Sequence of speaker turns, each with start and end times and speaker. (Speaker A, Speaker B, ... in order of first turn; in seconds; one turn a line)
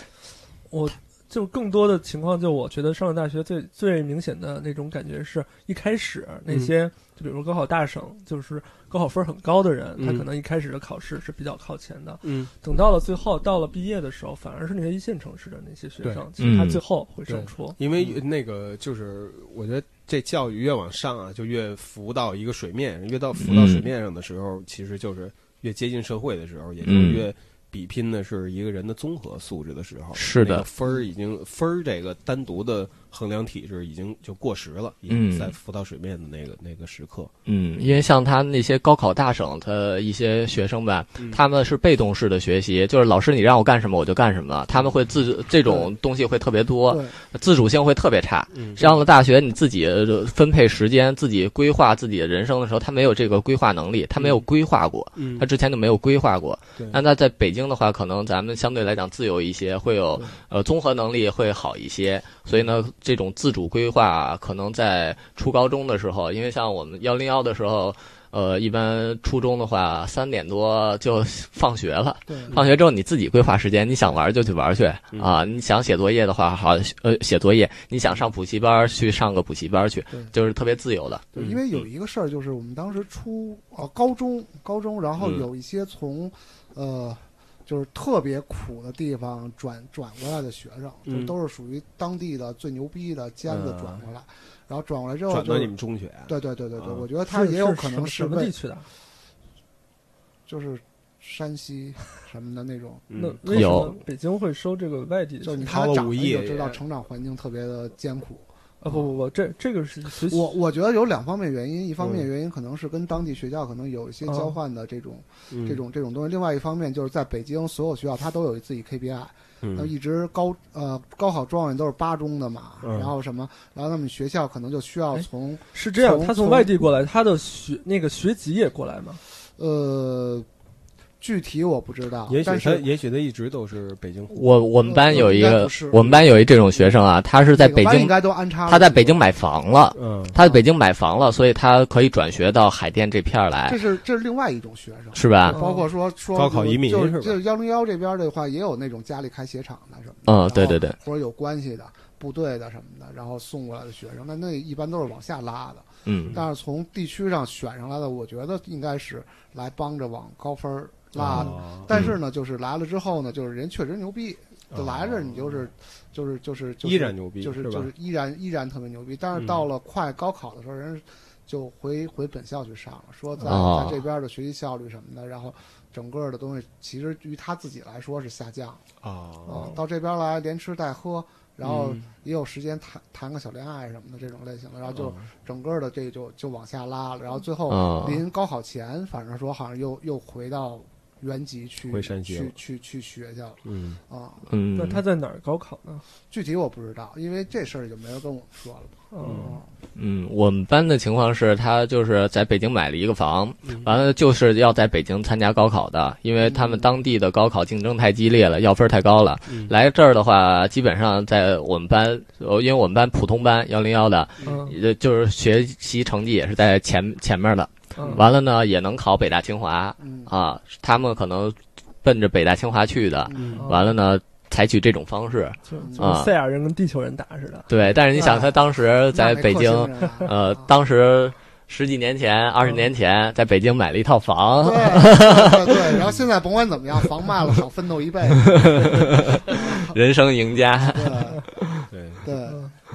Speaker A: 0.7-17.8
Speaker B: 6.5-6.8
Speaker B: 10.0-10.3
Speaker B: 12.2-12.5
Speaker B: 16.0-16.3
Speaker C: 16.4-16.8
Speaker B: 17.3-37.3
Speaker C: 23.4-23.9
Speaker C: 26.8-27.3
Speaker C: 30.1-30.6
Speaker C: 35.1-35.5
Speaker C: 37.5-81.3
Speaker D: 46.9-47.1
Speaker B: 48.5-48.9
Speaker B: 54.2-54.4
Speaker B: 55.2-55.5
Speaker D: 72.3-72.6
Speaker D: 81.3-95.7
Speaker B: 91.1-91.3
Speaker B: 93.5-94.0
Speaker B: 95.3-97.1
Speaker D: 96.3-98.6
Speaker A: 97.2-98.9
Speaker D: 100.5-103.1
Speaker B: 103.1-103.8
Speaker A: 103.2-105.7
Speaker C: 103.5-104.0
Speaker D: 105.4-109.1
Speaker B: 105.6-106.8
Speaker A: 108.8-110.5
Speaker D: 110.3-126.8
Speaker B: 112.0-112.2
Speaker A: 114.3-114.5
Speaker B: 115.5-115.8
Speaker B: 119.6-119.9
Speaker B: 122.8-123.1
Speaker A: 125.2-129.2
Speaker D: 129.6-130.5
Speaker D: 131.2-132.9
Speaker B: 132.3-134.5
Speaker C: 134.3-143.8
Speaker D: 134.8-136.5
Speaker D: 137.5-139.2
Speaker B: 139.9-140.3
Speaker D: 140.4-140.6
Speaker D: 143.7-178.8
Speaker C: 145.2-145.6
Speaker A: 145.5-145.8
Speaker B: 146.3-147.4
Speaker C: 150.3-151.0
Speaker C: 156.1-156.4
Speaker B: 161.2-162.1
Speaker B: 164.7-165.6
Speaker B: 166.8-167.9
Speaker B: 169.4-169.6
Speaker C: 173.4-174.0
Speaker B: 179.0-179.7
Speaker D: 179.5-194.5
Speaker B: 181.6-182.1
Speaker B: 184.9-185.3
Speaker C: 187.7-188.2
Speaker B: 191.9-192.6
Speaker B: 193.7-194.0
Speaker C: 194.5-195.0
Speaker A: 194.8-196.0
Speaker D: 196.3-199.7
Speaker A: 199.1-199.6
Speaker B: 199.2-199.5
Speaker C: 200.0-226.3
Speaker D: 206.4-206.8
Speaker A: 214.4-214.8
Speaker A: 218.0-218.2
Speaker D: 220.0-220.3
Speaker D: 223.3-223.7
Speaker B: 223.3-223.7
Speaker A: 223.6-223.9
Speaker A: 225.7-227.7
Speaker D: 225.8-226.1
Speaker C: 227.7-236.0
Speaker D: 228.2-228.6
Speaker D: 229.1-230.7
Speaker D: 234.6-240.0
Speaker C: 238.5-241.3
Speaker D: 240.8-241.4
Speaker B: 241.9-242.3
Speaker D: 242.2-242.7